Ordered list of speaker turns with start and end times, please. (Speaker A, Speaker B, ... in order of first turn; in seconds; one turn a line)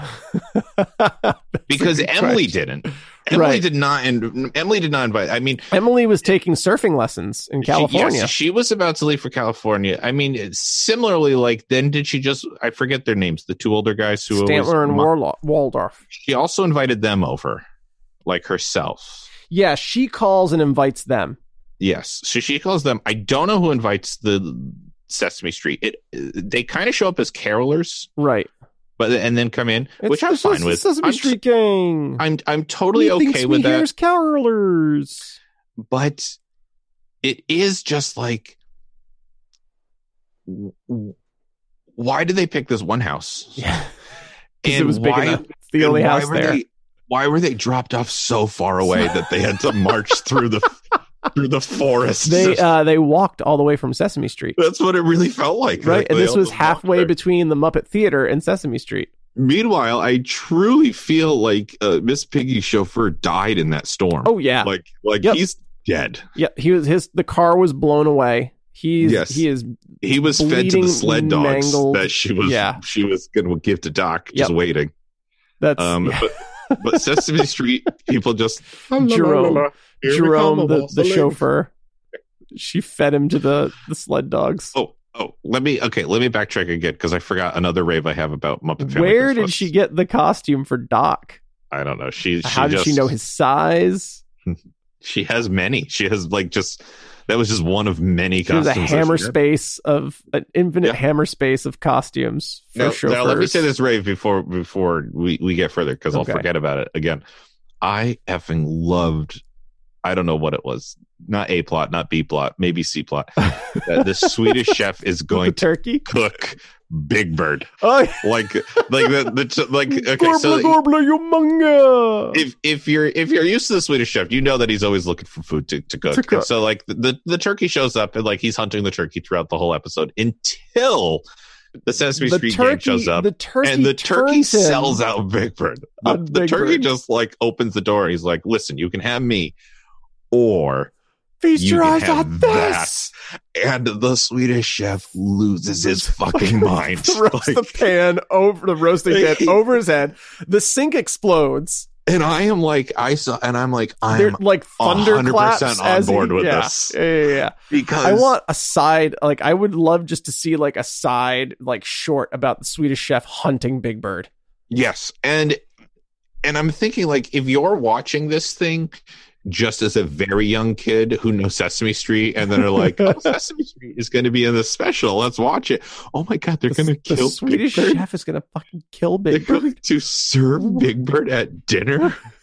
Speaker A: 0.2-2.6
Speaker B: 1.7-5.7
Speaker A: 3.3-3.6
Speaker A: 5.7-8.3
Speaker B: 7.6-15.1
Speaker A: 14.3-16.0
Speaker B: 16.1-17.6
Speaker B: 18.3-19.3
Speaker A: 19.5-21.4
Speaker B: 21.8-28.1
Speaker A: 28.2-28.5
Speaker B: 29.0-31.4
Speaker A: 30.0-32.2
Speaker B: 32.2-33.9
Speaker A: 33.0-35.4
Speaker B: 35.9-36.4
Speaker B: 37.2-38.6
Speaker B: 40.5-41.2
Speaker B: 42.0-43.7
Speaker A: 43.6-43.9
Speaker B: 44.6-52.7
Speaker A: 44.6-46.6
Speaker A: 52.2-54.6
Speaker B: 54.6-57.1
Speaker A: 55.8-59.1
Speaker B: 59.4-66.2
Speaker A: 64.2-64.7
Speaker A: 66.4-72.8
Speaker B: 69.0-69.5
Speaker B: 70.0-74.9
Speaker A: 75.6-77.2
Speaker B: 75.8-81.4
Speaker A: 78.9-81.7
Speaker A: 82.5-84.8
Speaker B: 84.8-89.7
Speaker A: 88.8-91.4
Speaker B: 91.7-93.1
Speaker A: 92.4-94.2
Speaker B: 94.5-99.4
Speaker A: 98.5-103.7
Speaker B: 102.8-107.2
Speaker A: 106.1-106.5
Speaker B: 107.8-109.4
Speaker B: 110.0-120.8
Speaker A: 113.7-114.7
Speaker A: 115.3-116.0
Speaker A: 117.8-119.2
Speaker A: 119.9-122.4
Speaker B: 122.3-131.2
Speaker A: 126.1-126.5
Speaker B: 131.9-139.6
Speaker A: 132.2-135.0
Speaker A: 136.0-136.9
Speaker B: 140.3-140.9
Speaker A: 141.4-142.9
Speaker B: 141.6-147.9
Speaker A: 145.7-151.9
Speaker B: 149.1-149.6
Speaker B: 152.1-157.0
Speaker A: 154.1-164.3
Speaker B: 157.7-158.3
Speaker B: 164.7-165.6
Speaker B: 166.4-168.9
Speaker B: 169.4-178.0
Speaker A: 173.0-173.3
Speaker A: 176.7-179.7
Speaker B: 179.3-182.2